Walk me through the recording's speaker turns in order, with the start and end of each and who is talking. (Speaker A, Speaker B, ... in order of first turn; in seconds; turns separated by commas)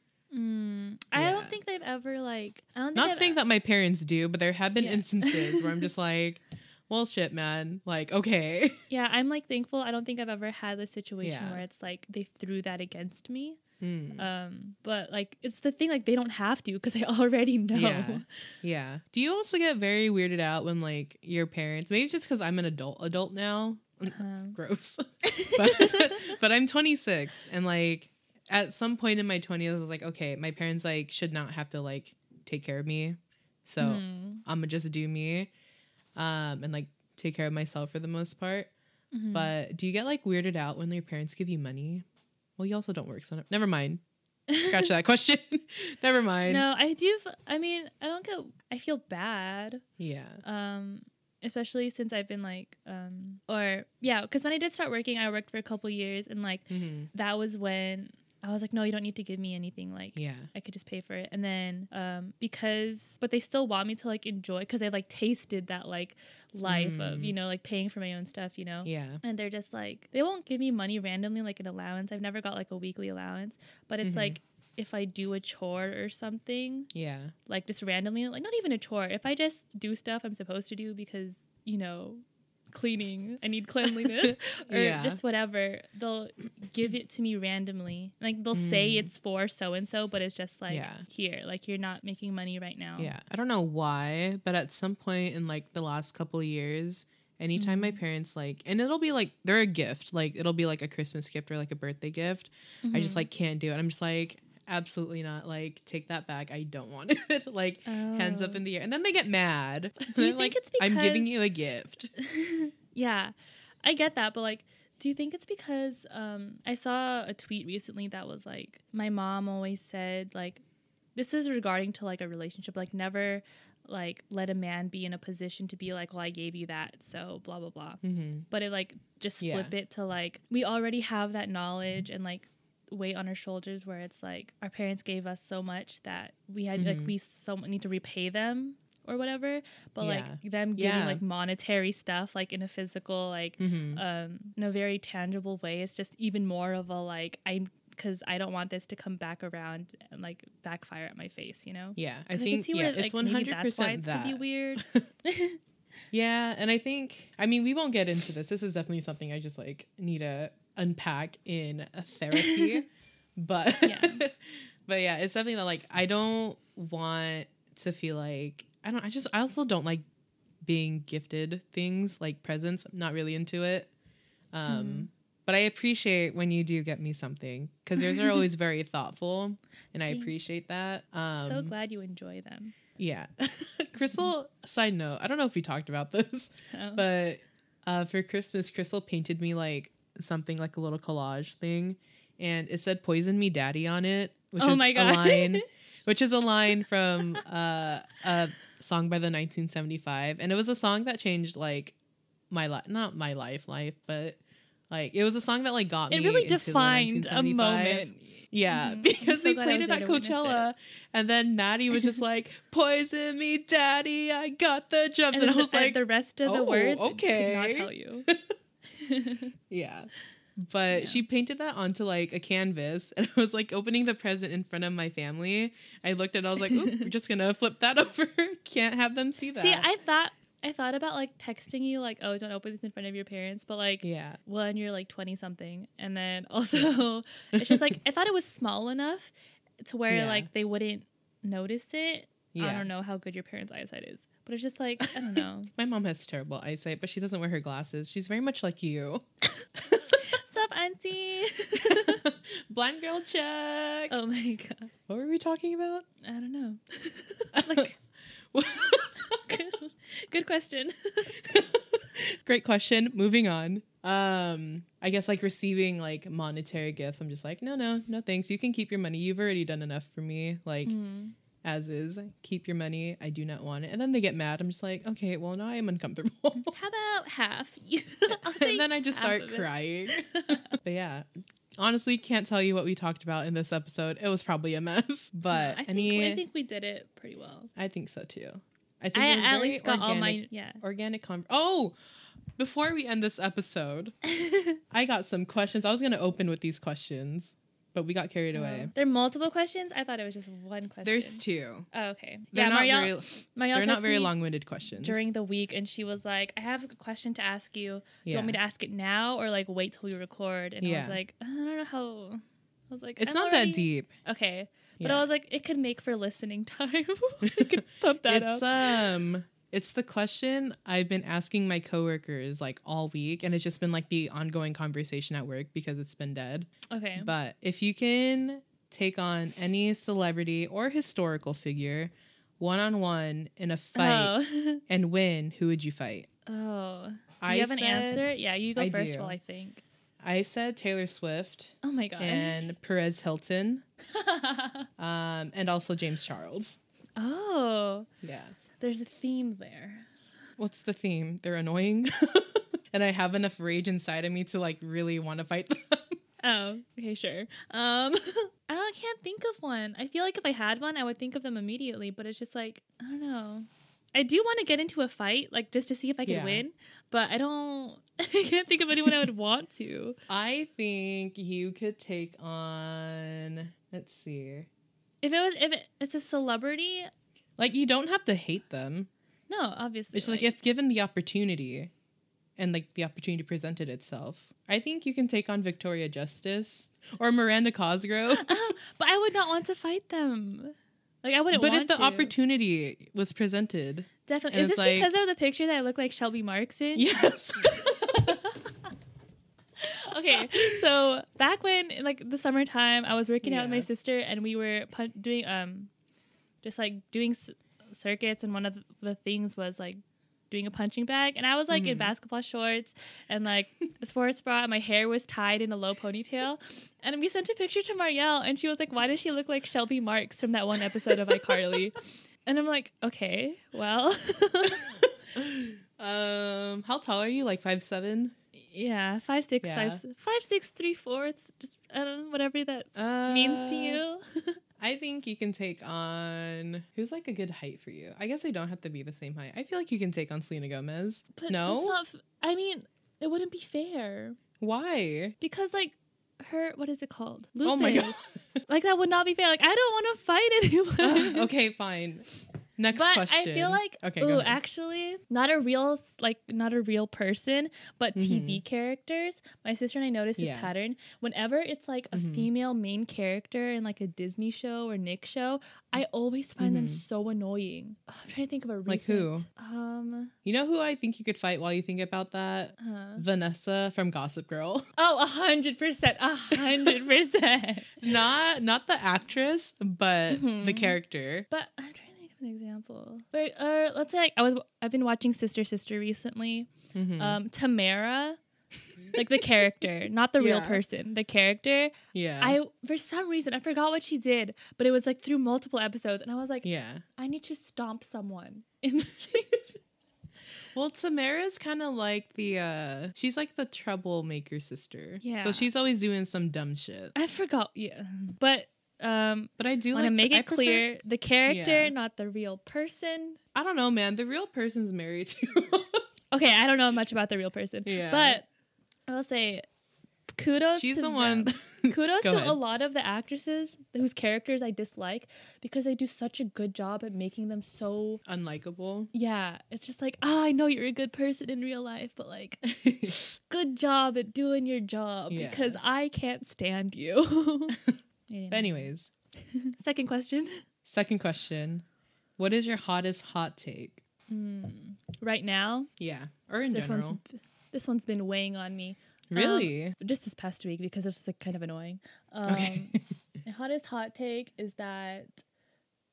Speaker A: 0.3-3.4, Speaker B: 1.1-1.6, Speaker B: 3.0-8.8, Speaker A: 4.8-5.7, Speaker A: 8.9-13.6, Speaker B: 11.2-11.6, Speaker B: 13.8-14.3, Speaker A: 14.2-18.3, Speaker B: 17.7-35.5, Speaker A: 24.1-24.6, Speaker A: 25.2-26.3, Speaker A: 33.8-34.4, Speaker B: 36.2-38.7, Speaker A: 39.1-39.5, Speaker B: 39.3-42.0, Speaker B: 42.6-44.0, Speaker A: 44.5-44.9, Speaker B: 44.6-46.6, Speaker A: 46.5-49.8, Speaker B: 50.0-50.4, Speaker A: 50.4-76.9, Speaker B: 56.7-57.1, Speaker B: 60.2-60.5, Speaker B: 66.6-67.3, Speaker B: 68.8-69.2, Speaker B: 74.0-74.4, Speaker B: 76.9-77.3, Speaker A: 77.5-93.1, Speaker B: 83.8-85.2, Speaker B: 88.5-89.1, Speaker B: 90.7-91.0, Speaker B: 93.0-112.1, Speaker A: 97.6-98.0, Speaker A: 102.8-103.3, Speaker A: 107.9-108.6, Speaker A: 110.1-111.3, Speaker A: 112.2-120.6, Speaker A: 121.2-155.6, Speaker B: 128.0-128.5, Speaker B: 129.4-129.7, Speaker B: 136.8-137.1, Speaker B: 140.0-141.2, Speaker B: 143.6-144.0, Speaker B: 152.0-155.1, Speaker B: 156.1-170.0, Speaker A: 162.4-162.8, Speaker A: 163.8-164.2, Speaker B: 170.7-173.9, Speaker B: 174.5-181.7, Speaker A: 174.7-175.1, Speaker A: 178.0-178.4, Speaker A: 181.4-182.7, Speaker B: 183.0-202.0, Speaker A: 186.7-187.0, Speaker A: 194.6-195.6, Speaker B: 202.5-204.4, Speaker B: 204.9-218.4, Speaker A: 206.1-210.7, Speaker A: 215.3-218.3, Speaker A: 218.9-219.5, Speaker B: 219.7-229.9, Speaker A: 220.9-221.2, Speaker A: 226.6-227.1, Speaker A: 229.6-245.7, Speaker B: 234.0-234.4, Speaker B: 237.6-237.9, Speaker B: 240.1-240.5, Speaker B: 242.5-242.9, Speaker B: 245.0-249.3, Speaker B: 249.8-250.2, Speaker A: 250.1-252.2, Speaker B: 251.8-254.2, Speaker A: 254.1-254.9, Speaker B: 255.1-256.1, Speaker A: 256.2-257.9, Speaker B: 257.5-257.9, Speaker B: 258.5-259.4, Speaker A: 259.4-261.4, Speaker B: 261.4-270.9, Speaker A: 270.9-271.4, Speaker B: 271.6-276.7, Speaker A: 276.7-280.7, Speaker B: 278.3-281.3, Speaker B: 281.8-286.4, Speaker A: 285.5-287.7, Speaker B: 287.8-291.9, Speaker A: 289.1-290.8, Speaker B: 292.6-294.1, Speaker A: 294.2-294.8, Speaker B: 294.9-298.9, Speaker A: 298.5-304.3, Speaker B: 301.0-301.9, Speaker B: 302.5-305.2, Speaker A: 305.0-319.1, Speaker B: 308.2-308.6, Speaker B: 310.8-311.2, Speaker B: 313.2-314.1, Speaker B: 315.0-315.2, Speaker B: 317.4-334.4, Speaker A: 326.9-327.3, Speaker A: 334.0-334.8, Speaker B: 334.9-336.3, Speaker A: 336.5-339.8, Speaker B: 337.4-339.4, Speaker B: 340.2-343.8, Speaker A: 341.8-342.7, Speaker A: 344.1-344.9, Speaker B: 345.0-346.8, Speaker A: 347.2-348.1, Speaker B: 348.2-348.6, Speaker A: 348.8-350.1, Speaker B: 350.6-356.2, Speaker A: 356.4-370.2, Speaker B: 366.3-366.6, Speaker B: 370.3-374.7, Speaker A: 375.2-377.1, Speaker B: 377.6-379.1, Speaker A: 379.5-380.5, Speaker B: 380.1-381.9, Speaker B: 382.6-388.5, Speaker A: 388.3-392.3, Speaker B: 391.5-395.1, Speaker A: 394.3-398.8, Speaker B: 396.9-398.4, Speaker A: 399.8-405.9, Speaker B: 403.4-403.9, Speaker A: 406.6-425.0, Speaker B: 411.7-412.1, Speaker B: 424.7-428.4, Speaker A: 428.6-434.6, Speaker B: 429.6-430.0, Speaker B: 432.9-434.0, Speaker B: 434.8-442.0, Speaker A: 441.4-444.4, Speaker B: 444.6-445.4, Speaker A: 445.4-451.5, Speaker B: 447.6-448.6, Speaker B: 451.0-454.6, Speaker A: 452.9-470.3, Speaker B: 458.2-458.6, Speaker B: 460.4-460.7, Speaker B: 462.1-462.5, Speaker B: 466.6-467.0, Speaker B: 468.9-469.5, Speaker B: 470.4-474.9, Speaker A: 472.8-473.2, Speaker A: 475.0-478.1, Speaker B: 478.0-481.5, Speaker A: 480.3-481.0, Speaker A: 481.5-488.4, Speaker B: 486.9-487.4, Speaker A: 489.1-496.6, Speaker B: 490.4-490.8, Speaker B: 492.1-492.6, Speaker B: 496.6-497.0, Speaker A: 497.2-499.6, Speaker B: 500.7-507.1, Speaker A: 505.2-505.7, Speaker A: 507.1-513.4, Speaker B: 509.6-510.9, Speaker B: 511.5-511.9, Speaker B: 513.5-516.0, Speaker A: 516.3-518.5, Speaker B: 517.9-518.4, Speaker A: 519.1-519.7, Speaker A: 520.4-528.2, Speaker B: 520.8-522.6, Speaker B: 528.3-529.1, Speaker A: 529.1-532.6, Speaker B: 532.7-533.2, Speaker A: 533.2-537.8, Speaker B: 535.3-535.8, Speaker A: 538.3-540.6, Speaker B: 538.5-539.1, Speaker B: 540.9-541.9, Speaker B: 542.4-544.0, Speaker A: 544.3-545.9, Speaker B: 546.0-547.2, Speaker A: 546.7-555.4, Speaker B: 549.3-550.0, Speaker B: 552.5-553.0